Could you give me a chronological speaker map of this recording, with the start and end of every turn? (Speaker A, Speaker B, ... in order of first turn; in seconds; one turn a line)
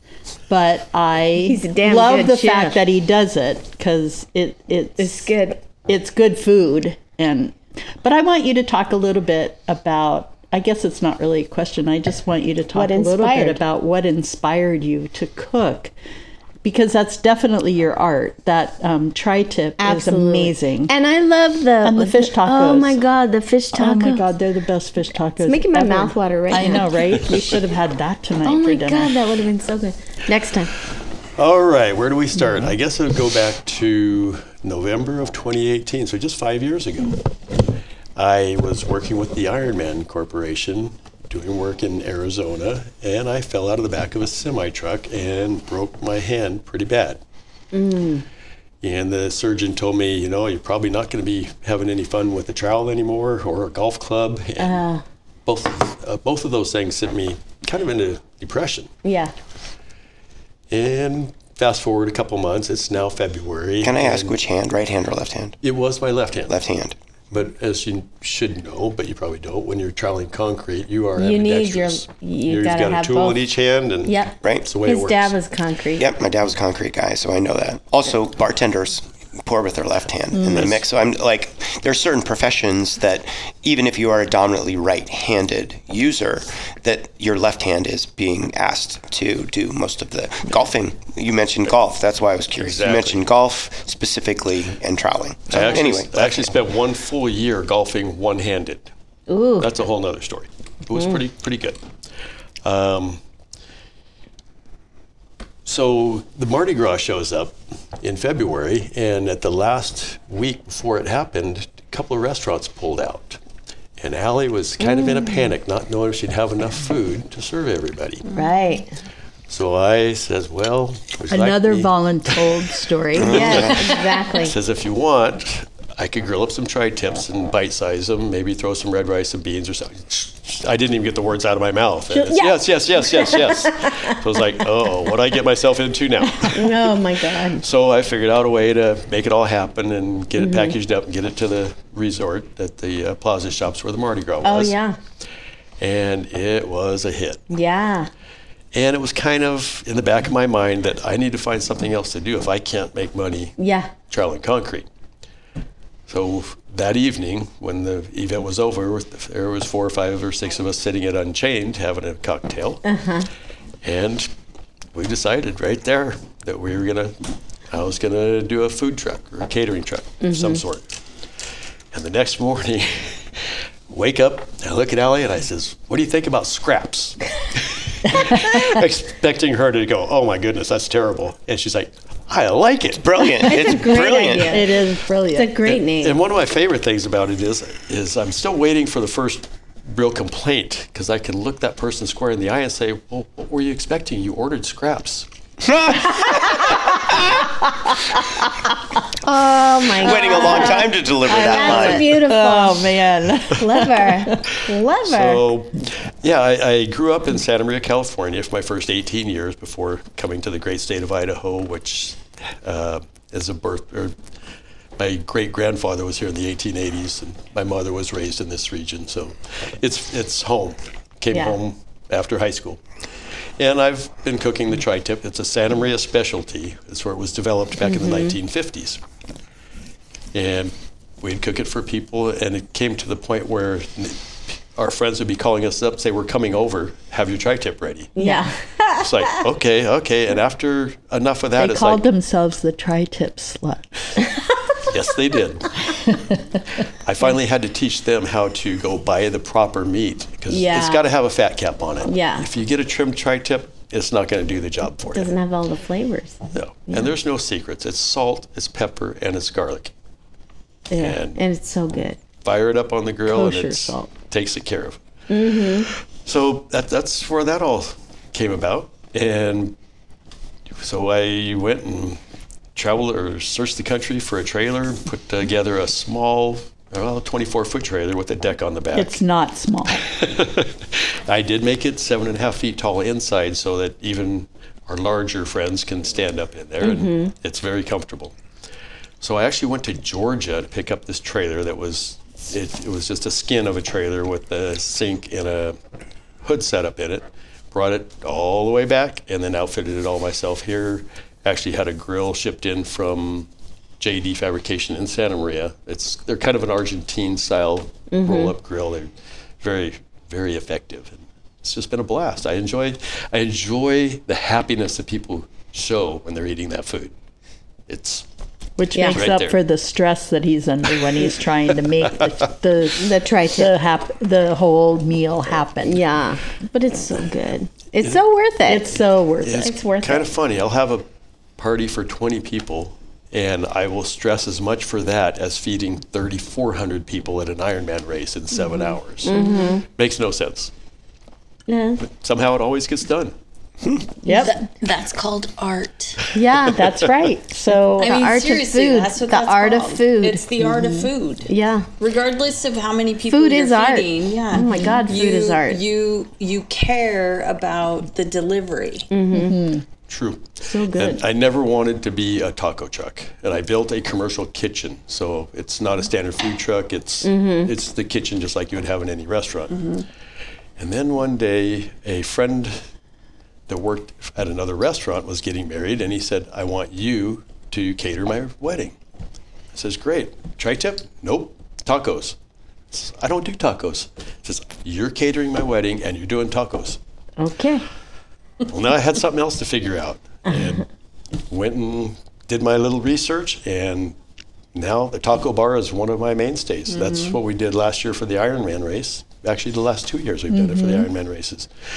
Speaker A: 0.5-5.3
Speaker B: 1.4-2.8
Speaker B: 5.0-5.6
Speaker A: 5.8-15.9
Speaker B: 12.7-13.6
Speaker A: 16.6-20.9
Speaker B: 19.8-24.3
Speaker A: 21.8-23.0
Speaker A: 23.7-29.1
Speaker B: 25.4-27.2
Speaker B: 28.4-30.7
Speaker C: 31.4-37.2
Speaker C: 38.1-47.2
Speaker B: 47.7-48.2
Speaker C: 48.8-54.8
Speaker B: 54.6-55.0
Speaker C: 55.5-58.9
Speaker B: 59.0-59.3
Speaker C: 60.7-64.3
Speaker D: 63.8-65.6
Speaker C: 65.6-66.6
Speaker D: 66.5-67.0
Speaker C: 67.3-75.3
Speaker B: 71.2-73.4
Speaker B: 74.0-76.1
Speaker D: 74.4-74.7
Speaker D: 76.0-96.5
Speaker A: 80.3-80.7
Speaker C: 92.6-93.2
Speaker C: 95.5-98.9
Speaker B: 99.3-99.7
Speaker C: 99.6-101.8
Speaker C: 102.6-103.2
Speaker C: 105.6-113.4
Speaker C: 114.0-118.2
Speaker B: 114.8-115.5
Speaker B: 118.3-118.9
Speaker C: 119.5-121.9
Speaker A: 121.3-123.7
Speaker D: 123.2-123.9
Speaker B: 123.2-124.5
Speaker C: 123.3-144.7
Speaker B: 132.2-134.2
Speaker B: 136.4-137.6
Speaker B: 140.4-140.8
Speaker B: 144.4-144.9
Speaker C: 145.8-147.4
Speaker B: 147.5-148.1
Speaker C: 148.7-154.8
Speaker B: 153.6-153.9
Speaker C: 156.1-162.8
Speaker B: 162.8-163.3
Speaker C: 163.8-164.3
Speaker C: 164.9-167.2
Speaker C: 167.7-170.9
Speaker B: 170.2-170.6
Speaker C: 171.9-183.1
Speaker D: 183.0-184.6
Speaker B: 183.4-184.7
Speaker A: 184.4-185.5
Speaker B: 185.3-186.2
Speaker C: 185.6-195.3
Speaker D: 195.6-197.4
Speaker B: 199.2-202.9
Speaker D: 199.9-202.2
Speaker A: 200.4-200.7
Speaker A: 201.3-204.4
Speaker B: 203.5-205.4
Speaker C: 205.0-214.1
Speaker C: 215.0-222.8
Speaker C: 223.6-229.0
Speaker B: 227.8-228.3
Speaker C: 230.3-238.1
Speaker B: 238.2-238.5
Speaker A: 238.2-238.5
Speaker C: 238.9-242.0
Speaker A: 241.6-243.9
Speaker C: 244.9-246.0
Speaker C: 247.0-255.3
Speaker B: 250.5-251.0
Speaker B: 252.1-252.5
Speaker B: 255.1-257.1
Speaker C: 256.5-259.9
Speaker A: 260.9-261.2
Speaker C: 261.0-261.4
Speaker B: 261.3-262.2
Speaker C: 262.4-265.0
Speaker A: 263.3-264.1
Speaker B: 265.3-265.9
Speaker C: 265.5-269.8
Speaker C: 270.8-272.2
Speaker C: 272.7-279.2
Speaker A: 278.9-280.0
Speaker C: 280.0-288.3
Speaker B: 286.8-287.3
Speaker C: 289.2-295.8
Speaker C: 296.4-303.5
Speaker C: 304.0-317.1
Speaker B: 308.1-308.5
Speaker C: 317.9-318.2
Speaker A: 318.8-326.0
Speaker B: 318.9-319.2
Speaker C: 319.1-319.6
Speaker B: 323.0-323.7
Speaker B: 325.8-328.9
Speaker A: 328.6-329.7
Speaker C: 329.4-331.1
Speaker B: 329.5-330.3
Speaker C: 331.6-340.7
Speaker B: 339.2-339.8
Speaker E: 339.3-339.7
Speaker B: 341.7-342.0
Speaker C: 342.0-343.3
Speaker A: 344.2-344.6
Speaker E: 344.3-346.2
Speaker B: 346.3-347.1
Speaker A: 346.7-348.2
Speaker B: 347.9-350.4
Speaker E: 347.9-359.1
Speaker A: 350.6-351.1
Speaker B: 351.5-351.9
Speaker B: 353.3-355.8
Speaker A: 354.5-355.0
Speaker B: 359.1-359.6
Speaker A: 359.3-359.8
Speaker C: 360.1-369.9
Speaker B: 360.6-361.2
Speaker B: 367.2-367.7
Speaker C: 370.8-372.8
Speaker C: 373.7-378.9
Speaker C: 379.7-382.4
Speaker C: 382.9-387.0
Speaker B: 387.4-387.8
Speaker C: 388.6-390.8
Speaker C: 391.5-394.1
Speaker C: 394.7-401.7
Speaker E: 396.9-397.4
Speaker A: 400.5-401.1